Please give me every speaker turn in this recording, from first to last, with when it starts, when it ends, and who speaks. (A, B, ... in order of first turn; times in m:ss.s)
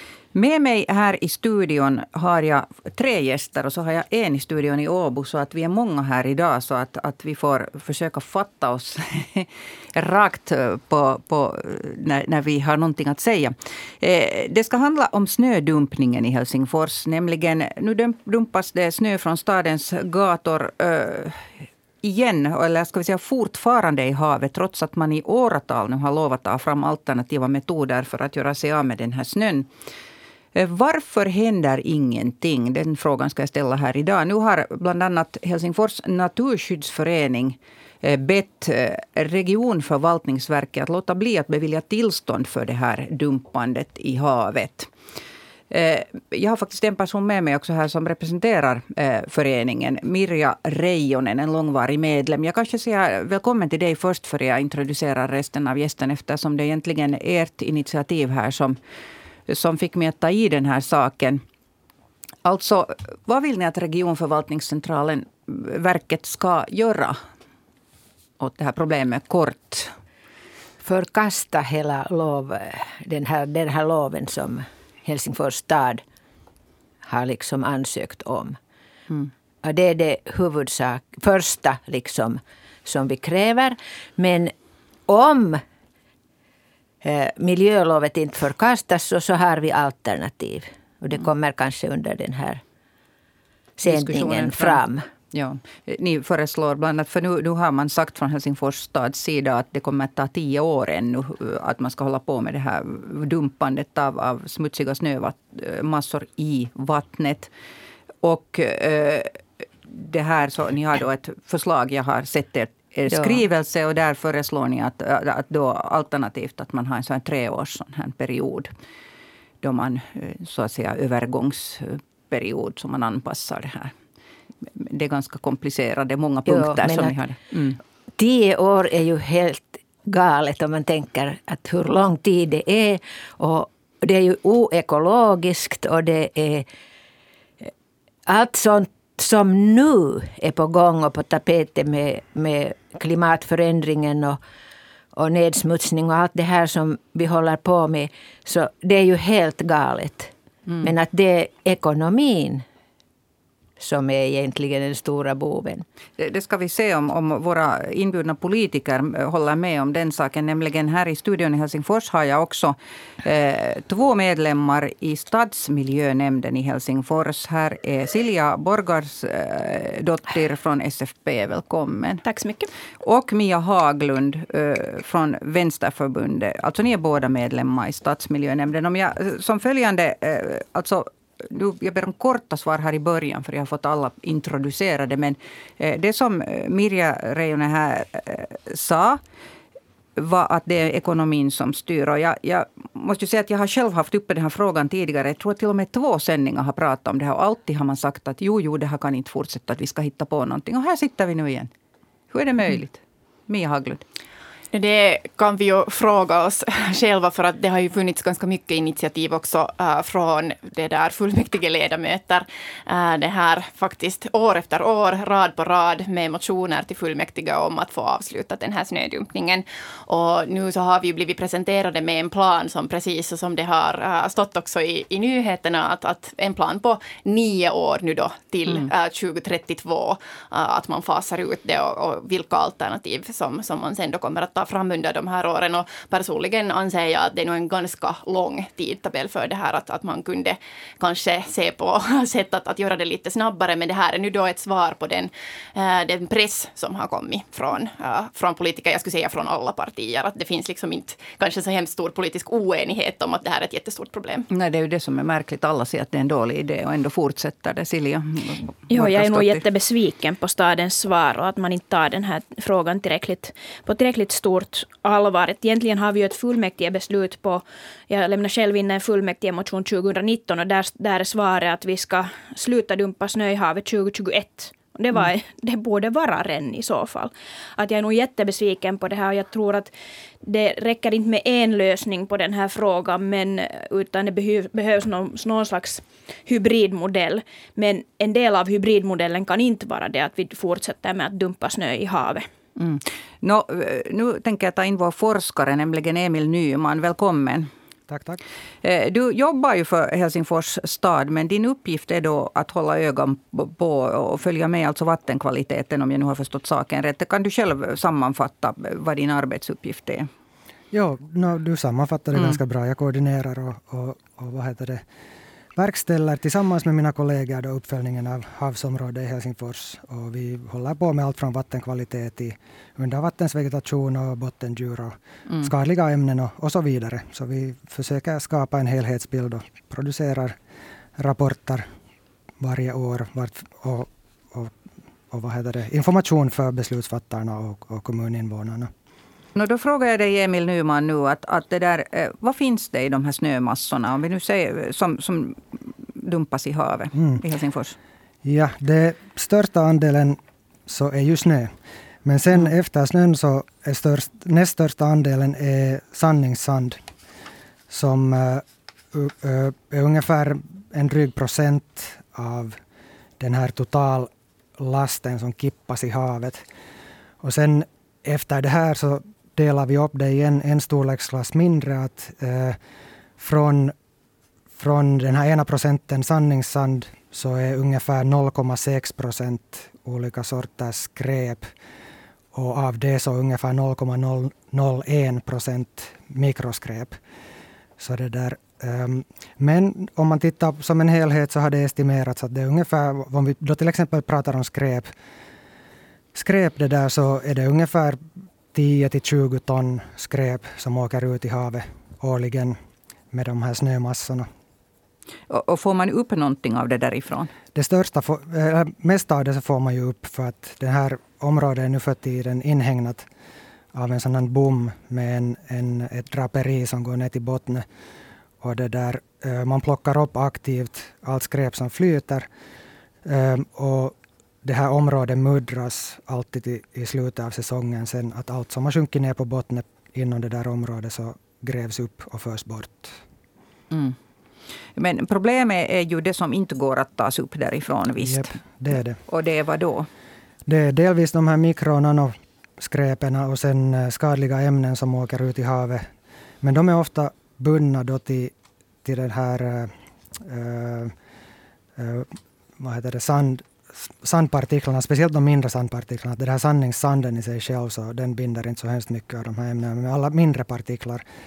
0:00.3-0:29.7 A
0:30.5-0:44.9 A
0:45.7-0:58.8 A
0:59.5-1:01.4 A
1:02.4-1:07.2 A
1:08.4-1:10.0 A
1:10.8-1:16.0 B
1:17.0-1:18.6 B
1:19.6-1:24.5 B
1:25.1-1:25.6 B
1:27.0-1:32.6 B
1:33.8-1:35.1 B
1:33.9-1:34.8 A
1:35.3-1:47.5 A
1:48.2-1:58.7 A
1:59.6-2:04.0 A
2:04.7-2:07.8 A
2:06.5-2:07.2 B
2:08.2-2:16.7 B
2:18.3-2:24.4 B
2:25.2-2:30.3 B
2:30.8-2:32.6 B
2:33.8-2:35.8 B
2:36.2-2:52.2 A
2:52.2-2:52.7 C
2:53.0-3:09.2 A
3:10.2-3:21.7 A
3:22.3-3:24.0 A
3:24.7-4:14.5 D
4:14.5-4:19.6 A
4:18.9-4:39.9 C
4:40.4-4:52.5 C
4:52.8-4:57.7 A
4:58.1-4:58.4 E
4:58.8-5:10.3 A
5:10.9-5:15.0 E
5:15.8-5:30.6 E
5:31.2-5:31.8 E
5:32.6-5:34.7 E
5:35.3-5:38.9 E
5:39.6-5:48.0 A
5:48.4-5:51.7 E
5:52.2-5:57.0 E
5:57.9-6:02.8 E
6:03.4-6:06.7 E
6:07.4-6:12.8 E
6:13.4-6:14.0 E
6:14.8-6:21.7 E
6:22.5-6:27.2 E
6:28.0-6:35.1 E
6:36.3-6:38.2 E
6:38.7-6:42.8 E
6:43.3-6:44.5 E
6:45.5-6:47.5 A
6:47.7-6:53.3 E
6:53.9-6:57.9 E
6:58.6-7:02.5 E
7:03.2-7:13.2 E
7:13.9-7:14.2 A
7:15.0-7:18.6 A
7:18.2-7:19.2 E
7:19.2-7:20.1 A
7:20.7-7:26.1 E
7:26.6-7:28.5 E
7:29.0-7:31.1 E
7:32.0-7:41.2 E